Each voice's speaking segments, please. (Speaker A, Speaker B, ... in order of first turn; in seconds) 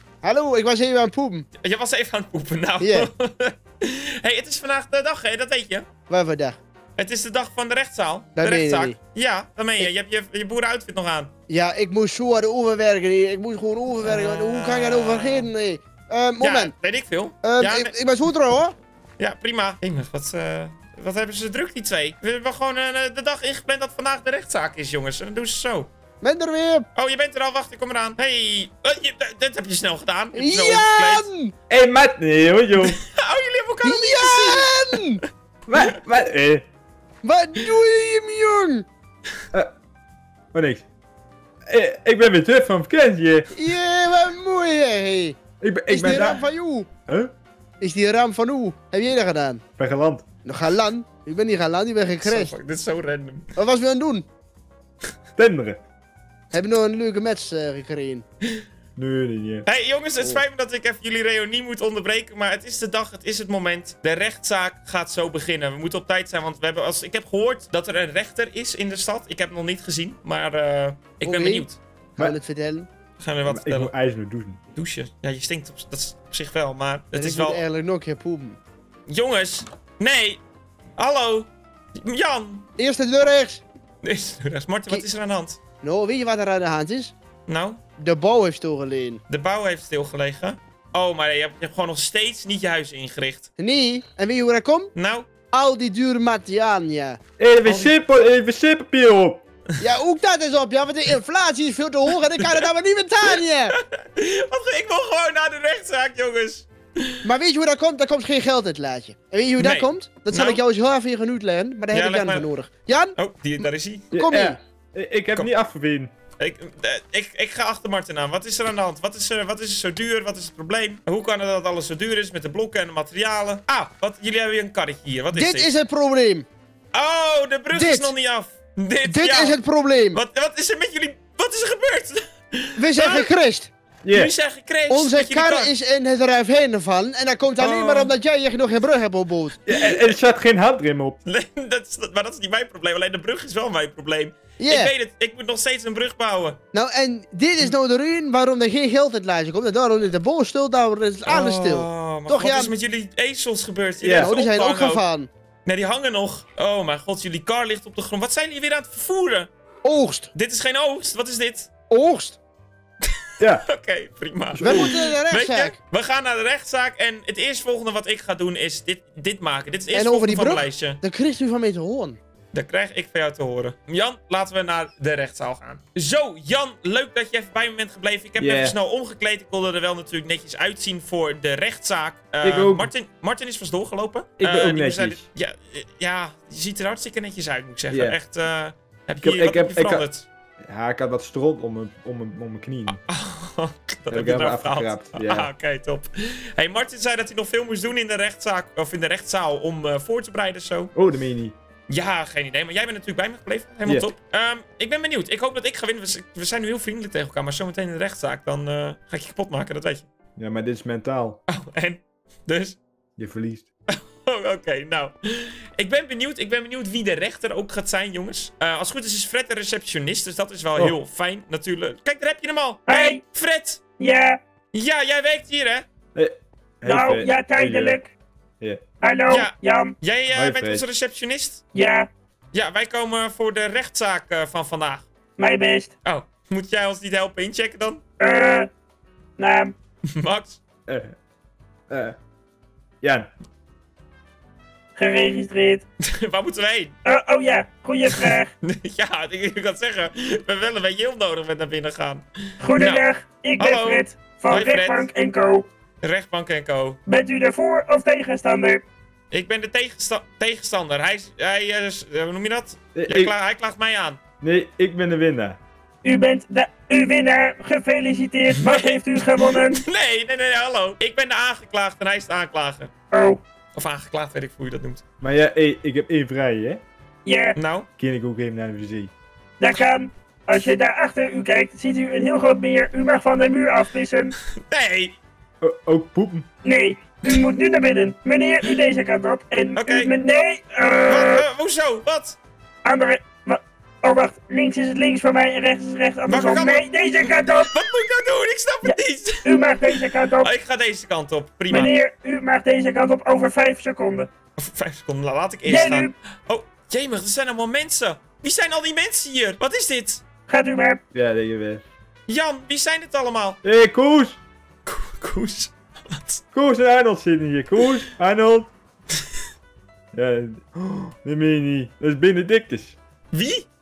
Speaker A: 0.2-1.4, 2.8-3.1, 6.1-6.6, 8.3-8.9, 11.5-16.7, 17.4-18.7, 26.2-26.9, 30.3-31.5, 33.8-35.2, 37.2-38.9, 43.5-46.9, 47.8-49.6, 50.4-52.5, 53.5-54.2, 56.5-58.2, 71.2-72.9, 77.1-78.6, 82.8-83.6, 85.8-87.1, 88.0-89.2, 93.6-94.9, 95.5-97.2, 99.8-103.7, 107.2-114.6, 125.3-126.5, 127.7-128.1, 129.0-130.2, 132.8-133.7, 134.9-139.6, 144.6-144.9, 146.7-152.7, 154.1-155.3, 159.8-160.3, 161.9-162.4, 164.6-165.8, 169.9-172.2
Speaker B: 1.6-5.8, 7.0-11.3, 14.0-15.5, 16.4-17.9, 19.2-25.9, 26.9-31.3, 32.8-35.0, 52.2-53.5, 59.6-71.8, 73.2-73.9, 74.7-77.6, 79.1-80.4, 81.0-82.7, 84.0-85.6, 87.5-87.8, 89.3-93.5, 94.9-95.3, 97.6-97.9, 103.7-107.2, 109.6-110.6, 111.9-112.5, 113.2-114.1, 116.4-125.7, 126.9-129.6, 130.1-133.3, 134.1-135.7, 137.6-138.1, 139.8-140.1, 141.2-146.6, 151.2-155.0, 155.7-159.5, 160.3-161.7, 163.1-171.0, 172.5-190.3, 192.9-200.9, 201.9-210.1, 211.5-212.8, 213.9-223.8, 224.7-225.8, 229.3-231.6, 232.5-235.1, 236.0-238.0, 240.2-240.6, 246.0-246.9, 248.1-252.2, 252.8-253.0, 253.6-255.1, 256.0-257.0, 259.3-264.2, 268.6-272.9, 273.7-275.0, 277.6-277.9, 284.6-285.2, 289.8-290.1, 291.1-292.4, 296.3-302.0, 304.6-310.2, 312.3-313.6, 314.9-316.4, 323.3-323.7
Speaker C: 31.7-33.0, 35.7-36.6, 40.5-40.8, 41.6-43.5, 45.6-46.4, 47.1-47.3, 49.8-50.2, 55.4-55.8, 59.0-59.6, 73.5-74.6, 97.4-99.4, 114.1-116.1, 134.0-134.3, 139.7-141.2, 154.0-154.3, 163.4-163.6, 164.5-164.9, 178.4-178.7, 182.4-182.9, 184.4-185.2, 187.9-188.2, 189.2-190.0, 190.6-193.0, 194.1-195.5, 200.9-201.5, 210.4-211.4, 213.2-213.7, 226.1-228.0, 230.3-230.8, 240.9-241.2, 241.9-242.2, 243.0-243.3, 262.9-263.3, 264.4-265.6, 275.2-276.8, 278.0-279.1, 285.6-286.5, 311.1-311.8, 313.6-314.4, 316.5-318.7, 320.1-322.9
Speaker D: 222.9-223.2, 224.0-224.4, 226.8-228.1, 229.0-229.9, 231.7-232.1, 235.4-235.9, 238.2-238.7, 239.4-239.7, 244.9-245.8, 247.0-248.5, 252.6-255.7, 257.1-258.8, 266.0-269.8, 273.1-273.4, 277.2-277.6, 279.6-284.3, 286.6-291.4, 292.8-297.7, 298.8-300.5, 301.7-304.3, 305.6-306.1, 310.5-311.0